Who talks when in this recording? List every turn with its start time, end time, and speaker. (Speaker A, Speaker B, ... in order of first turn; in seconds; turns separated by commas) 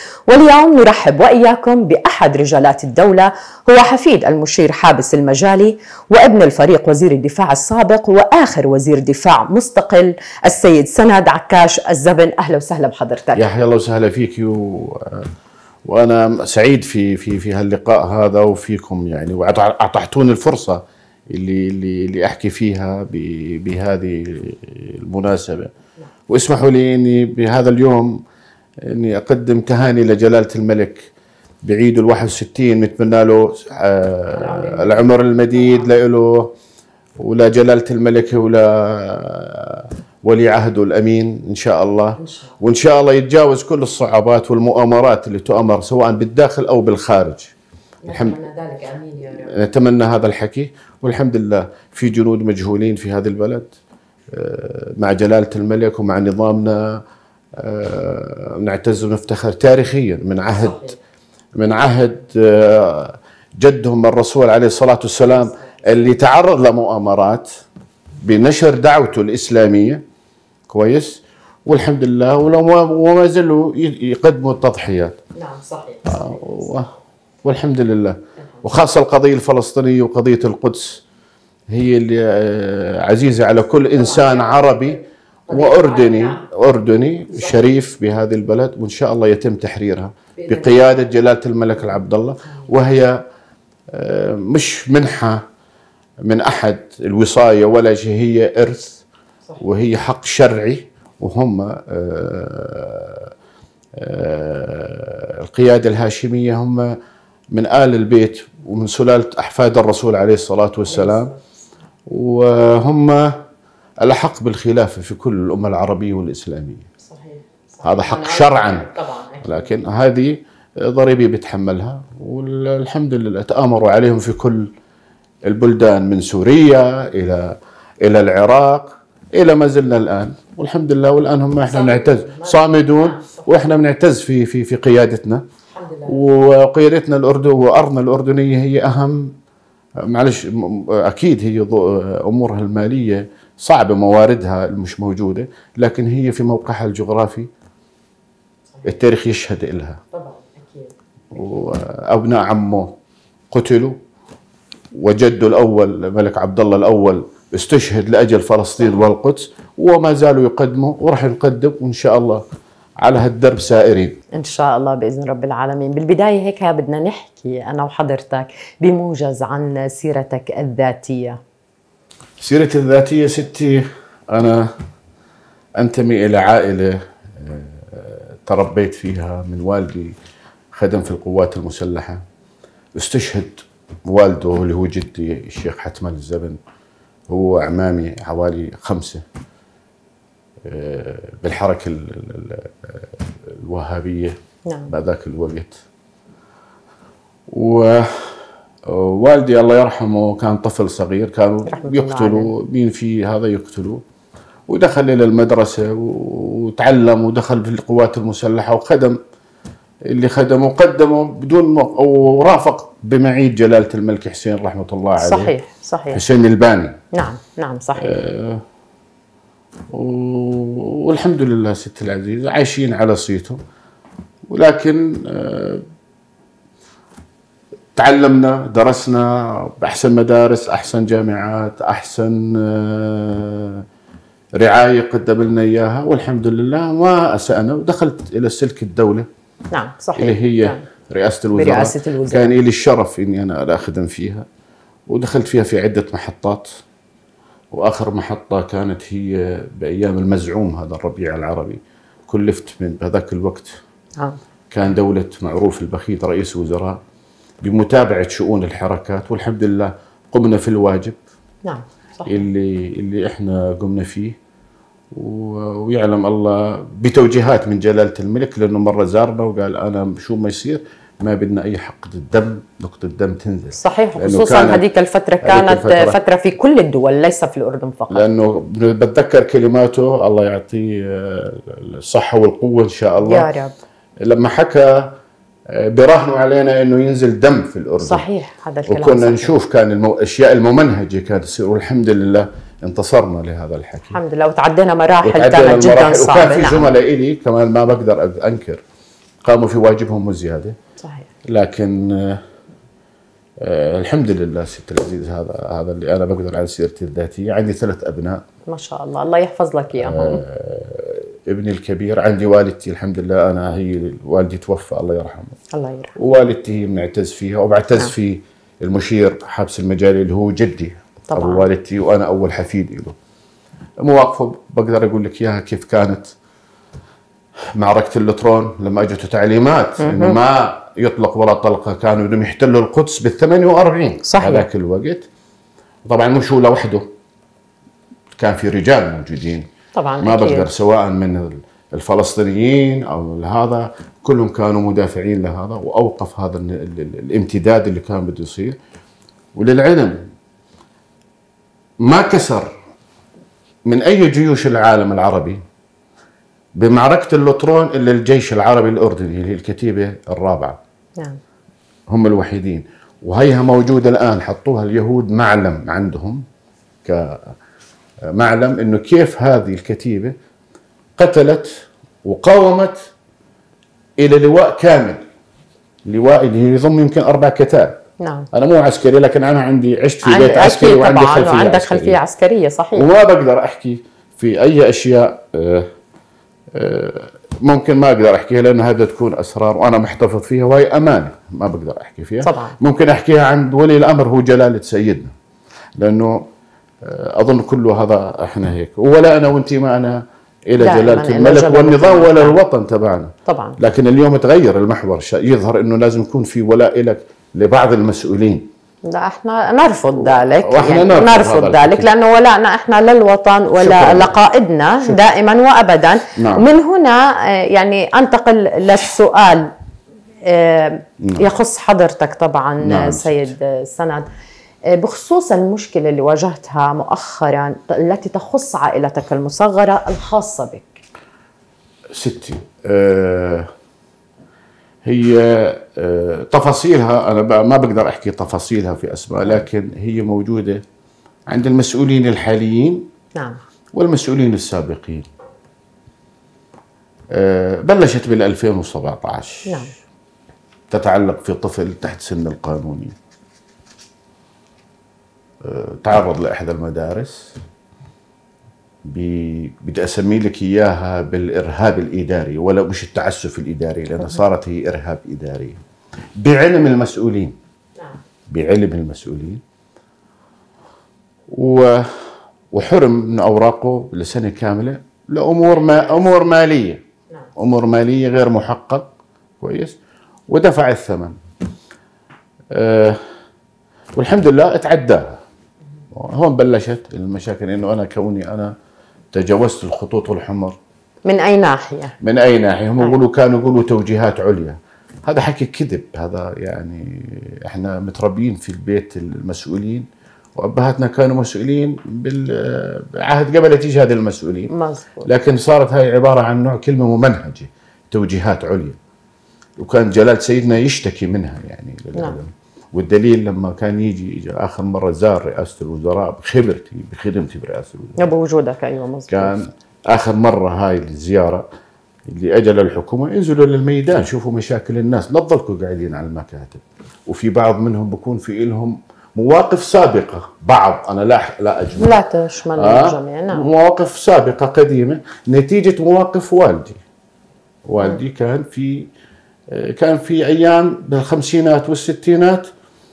Speaker A: 0.3-13.4, Speaker B: 13.3-15.3, Speaker B: 15.8-25.7, Speaker B: 26.3-28.2, Speaker B: 28.8-31.1, Speaker B: 31.6-36.5, Speaker A: 34.3-35.9, Speaker B: 37.2-47.5, Speaker A: 42.2-42.5, Speaker A: 48.0-49.5, Speaker B: 48.1-48.4, Speaker B: 49.3-53.7, Speaker B: 54.3-57.0, Speaker B: 57.6-60.9, Speaker A: 60.5-60.9, Speaker B: 61.5-67.5, Speaker A: 65.3-65.8, Speaker B: 68.2-70.0, Speaker B: 70.7-75.2, Speaker A: 75.3-76.7, Speaker B: 76.0-76.9, Speaker B: 77.4-81.0, Speaker B: 81.7-85.0, Speaker A: 83.9-85.0, Speaker A: 85.5-86.4, Speaker B: 85.5-93.2, Speaker A: 90.4-90.8, Speaker B: 93.9-95.4, Speaker B: 96.2-99.0, Speaker B: 99.6-103.3, Speaker B: 104.0-107.0, Speaker B: 107.5-111.3, Speaker A: 110.9-111.4, Speaker B: 112.1-113.4, Speaker B: 114.0-116.9, Speaker A: 117.0-119.7, Speaker B: 117.8-118.9, Speaker B: 119.4-124.7, Speaker B: 125.5-135.4, Speaker A: 131.6-133.5, Speaker A: 135.7-136.2, Speaker B: 136.1-139.3, Speaker B: 140.0-147.5, Speaker B: 148.8-150.0, Speaker A: 150.1-150.9, Speaker B: 151.3-152.9, Speaker B: 153.5-154.0, Speaker B: 154.9-162.4, Speaker B: 163.0-164.2, Speaker A: 164.3-171.4, Speaker B: 172.4-174.7, Speaker B: 175.8-180.2, Speaker B: 180.7-182.2, Speaker B: 182.9-186.6, Speaker B: 187.3-189.2, Speaker B: 190.6-194.4, Speaker A: 194.7-194.9, Speaker B: 194.9-195.8, Speaker B: 197.5-204.0, Speaker A: 201.7-202.5, Speaker B: 204.7-209.2, Speaker B: 210.1-215.5, Speaker A: 215.2-216.2, Speaker B: 216.1-217.0, Speaker A: 217.1-218.2, Speaker B: 218.0-218.6, Speaker B: 219.9-223.6, Speaker B: 224.5-225.8, Speaker B: 227.9-233.8, Speaker B: 234.6-239.3, Speaker A: 239.7-240.8, Speaker B: 240.2-244.5, Speaker A: 241.5-242.6, Speaker B: 245.1-246.7, Speaker B: 247.7-253.8, Speaker B: 254.7-257.0, Speaker B: 257.6-261.2, Speaker A: 261.6-262.4, Speaker B: 262.2-264.4, Speaker B: 265.1-274.8, Speaker A: 273.7-278.3, Speaker B: 275.4-276.1, Speaker B: 278.1-283.5, Speaker A: 283.2-283.8, Speaker B: 284.2-285.1, Speaker B: 285.7-288.2, Speaker A: 288.0-289.6, Speaker B: 288.9-294.2, Speaker A: 294.1-296.9, Speaker B: 295.2-298.8, Speaker B: 299.4-300.8, Speaker A: 301.0-301.3, Speaker B: 301.5-302.4, Speaker B: 303.6-308.4, Speaker A: 308.7-310.4, Speaker B: 310.0-315.6, Speaker A: 315.7-316.1, Speaker B: 316.1-323.1, Speaker A: 321.3-321.7, Speaker B: 324.0-326.3, Speaker B: 327.8-335.2, Speaker A: 330.0-330.4, Speaker A: 334.2-334.7, Speaker B: 336.1-337.1, Speaker B: 338.4-339.7, Speaker A: 339.9-340.7, Speaker B: 340.2-348.8, Speaker B: 349.5-350.3, Speaker B: 352.0-352.7, Speaker B: 353.9-355.6, Speaker B: 356.8-360.8, Speaker B: 362.1-366.4, Speaker B: 367.0-367.5, Speaker B: 368.3-370.3, Speaker B: 371.2-372.9, Speaker B: 374.2-375.2, Speaker B: 376.1-378.0, Speaker A: 378.2-378.5, Speaker B: 378.5-382.2, Speaker A: 380.2-383.1, Speaker B: 382.9-385.9, Speaker B: 386.7-395.3, Speaker A: 392.4-392.8, Speaker B: 396.0-396.5, Speaker B: 397.0-408.7, Speaker A: 400.8-402.6, Speaker A: 403.5-403.8, Speaker A: 409.1-419.7, Speaker B: 410.4-412.1, Speaker B: 413.8-414.4, Speaker B: 416.4-416.6, Speaker A: 420.4-424.3, Speaker B: 421.2-421.4, Speaker B: 422.8-423.5, Speaker A: 424.9-431.0, Speaker B: 432.1-433.7, Speaker B: 435.0-440.8, Speaker B: 441.5-443.1, Speaker B: 443.9-445.3, Speaker B: 447.3-449.8, Speaker A: 449.7-449.9, Speaker B: 450.9-453.1, Speaker B: 455.6-457.6, Speaker B: 459.1-465.8, Speaker B: 466.4-467.6, Speaker B: 468.5-469.6, Speaker B: 471.5-477.0, Speaker B: 477.6-479.1, Speaker B: 479.6-479.9, Speaker B: 480.5-481.3, Speaker B: 482.7-483.2, Speaker B: 484.1-485.4, Speaker B: 486.1-488.7, Speaker B: 489.3-490.8, Speaker A: 491.2-492.1, Speaker B: 492.2-504.7, Speaker A: 504.7-505.3, Speaker B: 505.2-509.0, Speaker B: 509.8-518.2, Speaker A: 518.2-519.5, Speaker B: 519.3-521.6, Speaker B: 522.3-532.1, Speaker A: 532.0-533.7, Speaker B: 532.8-537.0, Speaker B: 537.8-539.1, Speaker B: 539.7-542.7